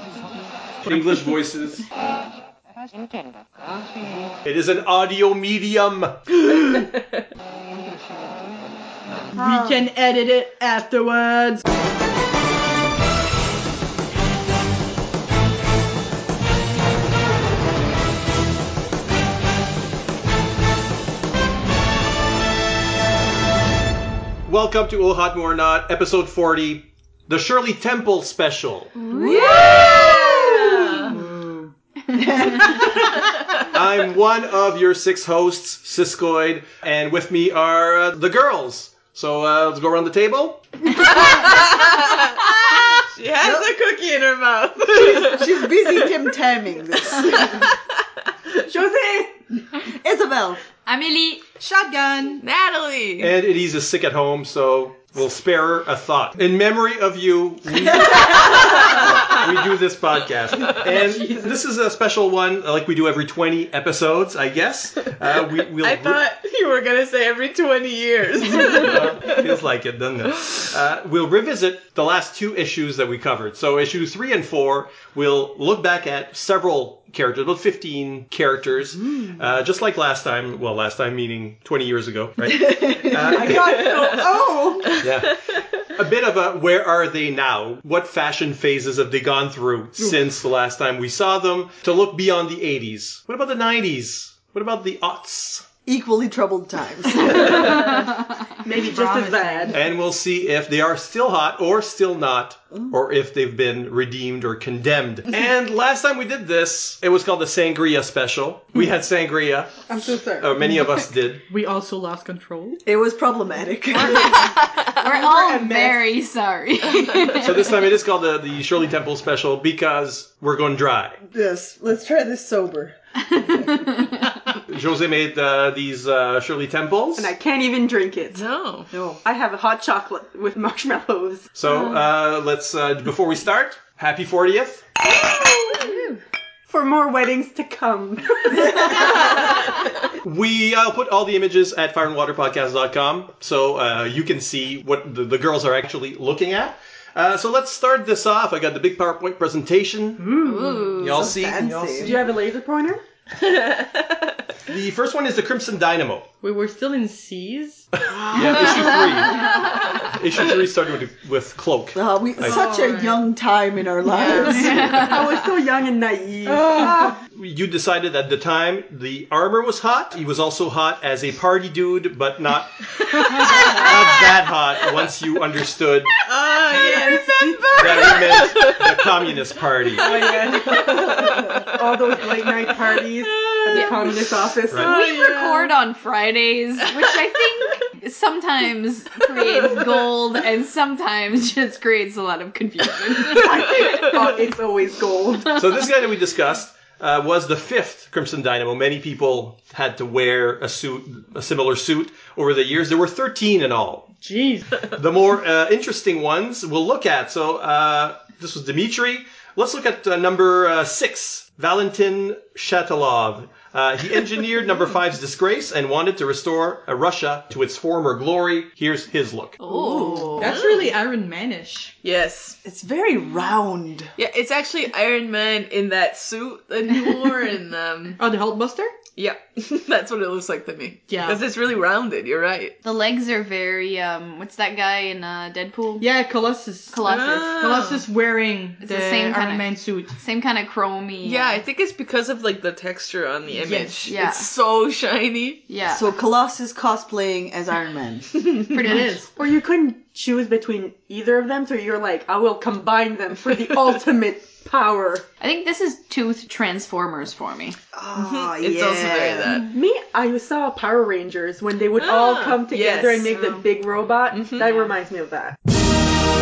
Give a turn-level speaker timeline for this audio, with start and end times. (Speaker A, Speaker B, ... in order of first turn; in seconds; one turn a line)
Speaker A: 0.8-1.9
Speaker A: 4.5-6.2
Speaker B: 9.3-9.8
Speaker C: 9.4-11.6
Speaker A: 24.5-28.9
Speaker D: 29.1-29.8
Speaker E: 29.2-31.1
Speaker B: 29.3-30.4
Speaker C: 31.1-31.7
Speaker B: 32.1-33.2
Speaker A: 33.7-40.8
Speaker E: 41.1-45.7
Speaker B: 43.4-43.7
Speaker B: 44.9-47.7
Speaker E: 47.2-47.6
Speaker F: 48.6-49.4
Speaker B: 49.9-50.6
Speaker D: 50.9-51.5
Speaker C: 51.6-52.4
Speaker E: 52.4-53.3
Speaker A: 53.2-66.2
Speaker E: 65.8-69.5
Speaker A: 68.7-84.1
Speaker B: 82.4-83.6
Speaker F: 83.2-85.0
Speaker A: 84.9-95.7
Speaker B: 95.9-97.7
Speaker C: 97.4-99.8
Speaker F: 98.6-99.7
Speaker A: 99.7-111.4
Speaker F: 109.9-110.6
Speaker C: 111.5-112.8
Speaker B: 112.8-114.4
Speaker C: 114.0-114.5
Speaker D: 115.0-117.7
Speaker C: 115.0-116.0
Speaker A: 117.3-121.2
Speaker B: 121.3-124.0
Speaker D: 123.5-124.4
Speaker A: 124.5-127.3
Speaker F: 127.2-128.5
Speaker E: 128.3-128.9
Speaker B: 128.9-129.2
Speaker F: 129.2-131.5
Speaker A: 131.6-134.8
Speaker F: 135.1-136.0
Speaker F: 136.7-139.7
Speaker A: 140.2-150.4
Speaker C: 150.2-151.0
Speaker D: 150.4-151.3
Speaker A: 151.0-152.2
Speaker B: 151.1-152.2
Speaker F: 152.0-153.0
Speaker E: 153.4-154.4
Speaker A: 154.7-156.3
Speaker C: 156.4-157.9
Speaker A: 158.3-162.6
Speaker B: 161.9-165.1
Speaker C: 162.4-163.2
Speaker E: 164.1-164.7
Speaker D: 164.6-165.4
Speaker F: 164.6-167.2
Speaker C: 166.7-167.0
Speaker B: 166.8-167.1
Speaker A: 167.3-176.1
Speaker E: 173.6-174.0
Speaker E: 176.2-179.0
Speaker B: 176.7-178.0
Speaker A: 177.8-180.2
Speaker F: 180.0-184.9
Speaker E: 180.0-185.8
Speaker D: 183.7-184.0
Speaker A: 184.7-184.9
Speaker D: 184.7-193.6
Speaker F: 193.3-195.6
Speaker A: 195.5-204.1
Speaker C: 204.2-204.8
Speaker A: 204.8-219.6
Speaker D: 219.6-220.5
Speaker B: 219.7-220.4
Speaker C: 220.3-221.9
Speaker E: 220.4-220.9
Speaker E: 222.0-222.6
Speaker B: 222.6-224.1
Speaker E: 224.2-228.2
Speaker C: 228.2-228.9
Speaker E: 229.2-232.8
Speaker C: 231.1-231.4
Speaker D: 232.8-236.1
Speaker C: 236.0-240.2
Speaker D: 236.9-237.6
Speaker E: 237.1-238.1
Speaker D: 238.8-241.6
Speaker E: 241.2-245.6
Speaker C: 243.5-244.2
Speaker D: 244.1-244.5
Speaker D: 245.7-246.1
Speaker B: 245.9-248.4
Speaker C: 248.7-249.3
Speaker D: 248.7-249.2
Speaker F: 249.4-255.3
Speaker D: 255.4-257.8
Speaker B: 257.9-259.6
Speaker E: 258.1-259.7
Speaker F: 259.7-265.6
Speaker E: 262.0-263.6
Speaker E: 264.3-264.7